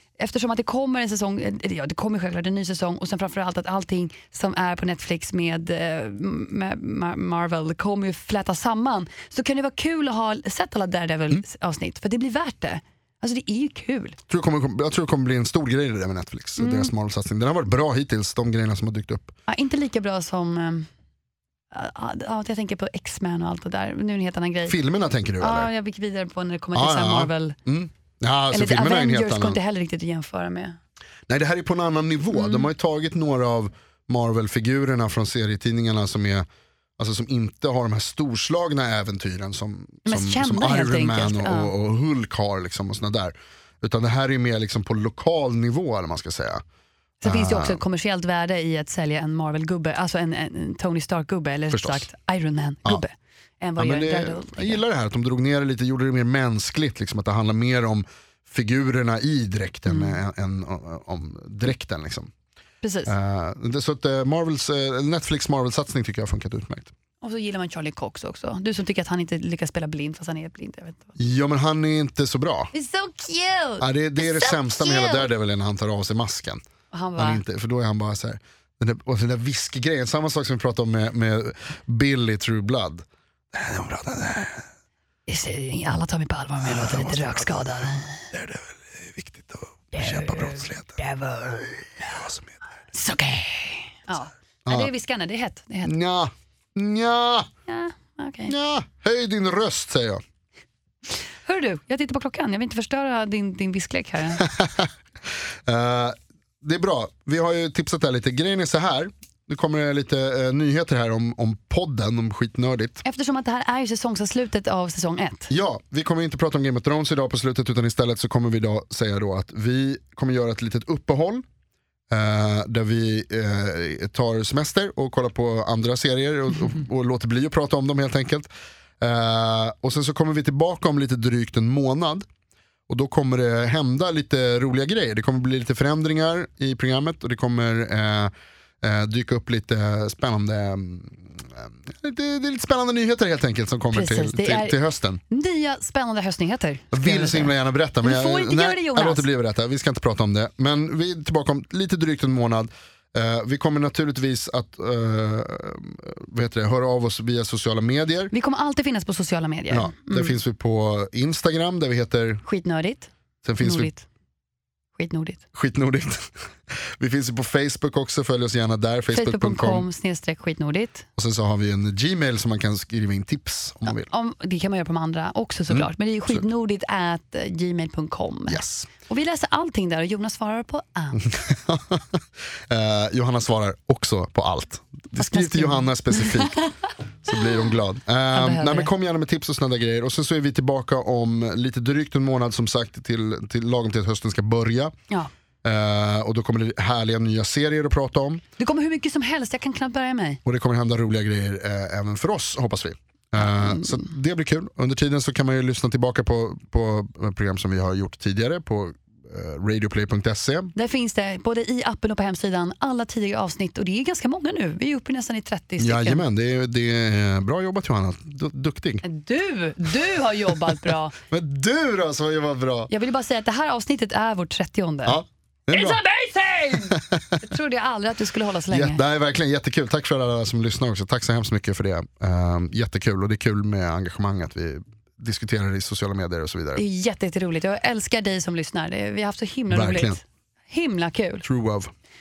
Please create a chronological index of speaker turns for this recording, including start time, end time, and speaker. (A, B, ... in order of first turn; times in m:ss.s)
0:00.2-0:14.2 A
0:14.3-0:19.3 B
0:16.6-0:16.9 A
0:19.5-0:20.9 A
0:21.7-0:24.8 A
0:24.7-0:25.7 B
0:25.4-0:27.6 A
0:26.8-0:29.6 B
0:28.5-0:30.8 A
0:31.3-0:36.5 B
0:32.3-0:32.7 A
0:37.0-0:46.6 B
0:40.1-0:41.7 A
0:47.2-0:54.8 A
0:47.2-0:47.8 B
0:51.7-0:52.1 B
0:53.8-1:02.3 B
0:59.9-1:00.2 A
1:02.8-1:03.1 A
1:03.1-1:06.9 B
1:07.2-1:11.2 A
1:11.2-1:12.7 B
1:12.7-1:15.3 A
1:13.8-1:16.6 B
1:16.9-1:17.4 A
1:17.2-1:24.6 B
1:25.3-1:28.3 A
1:26.6-1:31.0 B
1:29.9-1:32.1 A
1:32.0-1:32.6 B
1:32.9-1:35.9 A
1:35.8-1:37.5 B
1:37.7-1:38.5 A
1:38.5-1:40.2 B
1:41.4-1:44.5 A
1:44.4-1:44.9 B
1:45.7-1:53.0 B
1:53.0-1:55.5 A
1:55.5-2:01.4 B
2:02.1-2:08.5 B
2:09.0-2:12.3 B
2:12.9-2:25.2 B
2:23.9-2:24.8 A
2:25.3-2:29.3 A
2:26.9-2:38.3 B
2:38.3-2:40.3 A
2:39.7-2:42.4 B
2:42.4-2:43.1 A
2:43.4-2:43.9 B
2:43.6-2:44.0 A
2:45.0-2:45.4 A
2:45.5-2:49.9 B
2:49.1-2:51.1 A
2:51.2-2:54.1 B
2:53.9-3:01.3 A
2:55.7-2:56.4 B
2:58.5-2:58.9 B
3:01.2-3:06.6 B
3:05.2-3:06.6 A
3:07.3-3:15.0 B
3:08.3-3:08.9 A
3:15.6-3:18.4 B
3:18.6-3:20.4 A
3:20.4-3:30.7 B
3:23.4-3:24.1 A
3:30.8-3:36.2 A
3:35.8-3:39.0 B
3:39.0-3:41.2 A
3:41.3-3:42.9 B
3:42.9-3:45.2 A
3:45.1-3:46.0 B
3:45.7-3:49.0 A
3:46.9-3:47.2 B
3:48.7-3:56.8 B
3:56.8-4:01.5 A
3:59.7-4:00.2 B
4:01.4-4:01.9 B